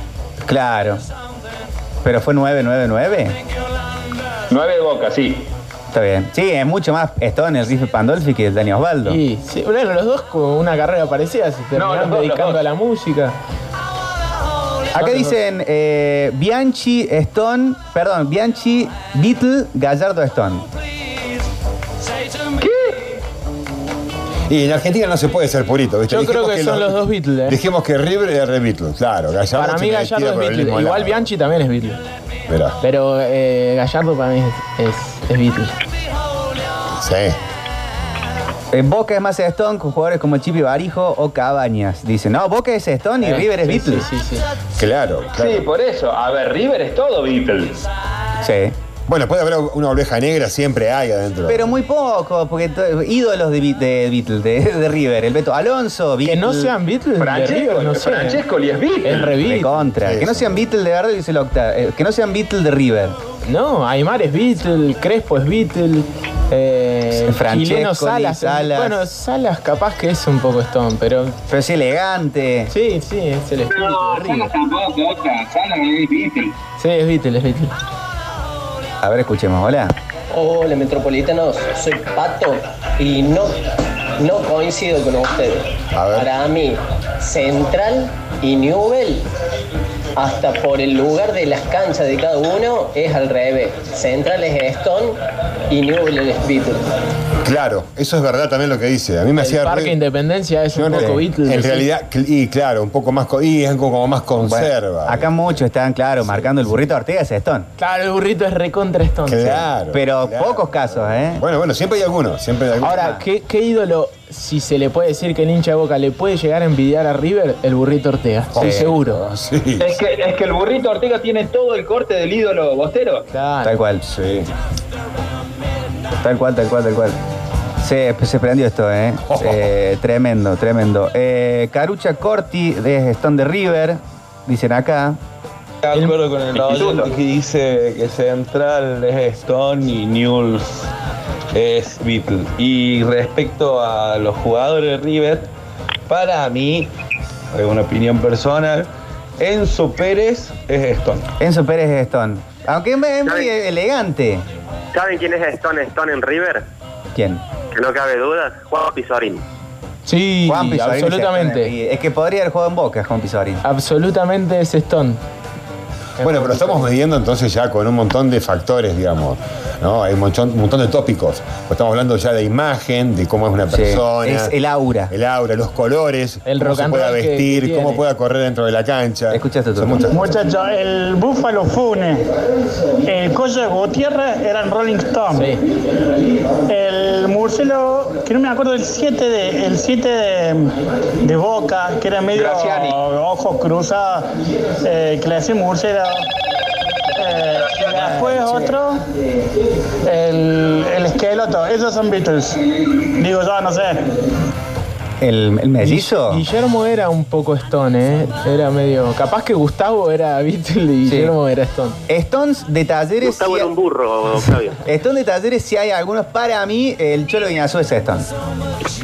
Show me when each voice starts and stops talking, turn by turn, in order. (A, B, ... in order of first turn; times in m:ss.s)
0:00.4-0:01.0 A
0:02.0-0:03.4 A
0:04.5-0:05.5 B
0:05.9-0:09.2 A
0:09.1-0:13.4 C
0:11.8-0:12.6 B
0:14.9-0:20.7 A
0:15.0-0:15.4 C
0:22.6-0:23.0 B
0:24.5-0:31.3 D
0:26.1-0:27.6 C
0:29.6-0:32.0 C
0:32.5-0:32.8 D
0:32.8-0:35.7 C
0:36.9-0:37.4 D
0:38.7-0:44.1 A
0:43.2-0:44.5 C
0:44.8-0:45.6 D
0:45.4-0:47.8 B
0:48.4-0:48.8 A
0:49.1-0:51.7 D
0:51.5-0:56.8 A
0:56.2-0:58.4 C
0:57.2-0:59.4 B
0:59.0-0:59.8 C
0:59.4-1:03.2 A
1:00.0-1:00.6 D
1:03.4-1:11.4 C
1:07.2-1:09.0 A
1:11.5-1:12.7 A
1:12.7-1:14.5 C
1:13.7-1:16.6 B
1:16.8-1:17.7 C
1:19.0-1:19.9 A
1:20.3-1:23.6 E
1:24.2-1:29.3 E
1:25.9-1:26.3 D
1:30.2-1:36.8 E
1:37.4-1:40.0 D
1:39.4-1:41.9 C
1:40.7-1:45.6 D
1:44.4-1:47.7 A
1:46.2-1:46.8 D
1:47.8-1:49.7 C
1:49.3-1:53.2 D
1:49.9-1:51.4 A
1:52.8-1:59.2 C
1:52.9-1:53.2 A
1:58.5-2:00.0 D
1:58.6-1:58.9 A
1:59.8-2:03.3 B
2:03.3-2:03.8 C
2:03.6-2:04.0 A
2:04.0-2:04.5 D
2:06.2-2:07.2 A
2:07.8-2:15.2 A
2:09.3-2:09.7 D
2:15.8-2:20.9 F
2:16.5-2:17.1 B
2:21.5-2:25.5 F
2:26.1-2:26.9 F
2:27.5-2:31.3 F
2:31.4-2:34.4 A
2:33.3-2:33.5 G
2:34.9-2:36.6 G
2:37.1-2:37.4 A
2:37.7-2:39.4 G
2:40.1-2:41.7 C
2:40.5-2:43.6 A
2:43.6-2:45.2 C
2:46.2-2:46.9 C
2:46.2-2:54.6 D
2:53.7-2:55.1 A
2:55.1-3:00.3 D
2:56.5-2:58.0 C
2:59.3-3:00.1 A
3:00.1-3:02.3 H
3:03.0-3:05.6 H
3:05.3-3:05.6 C
3:06.7-3:14.3 H
3:12.3-3:13.0 B
3:14.8-3:16.3 H
3:17.2-3:19.0 H
3:17.7-3:18.3 B
3:20.0-3:24.1 H
3:25.2-3:26.4 A
3:25.8-3:32.0 C
3:31.0-3:31.3 A
3:32.1-3:33.7 A
3:33.2-3:34.8 G
3:34.8-3:38.3 A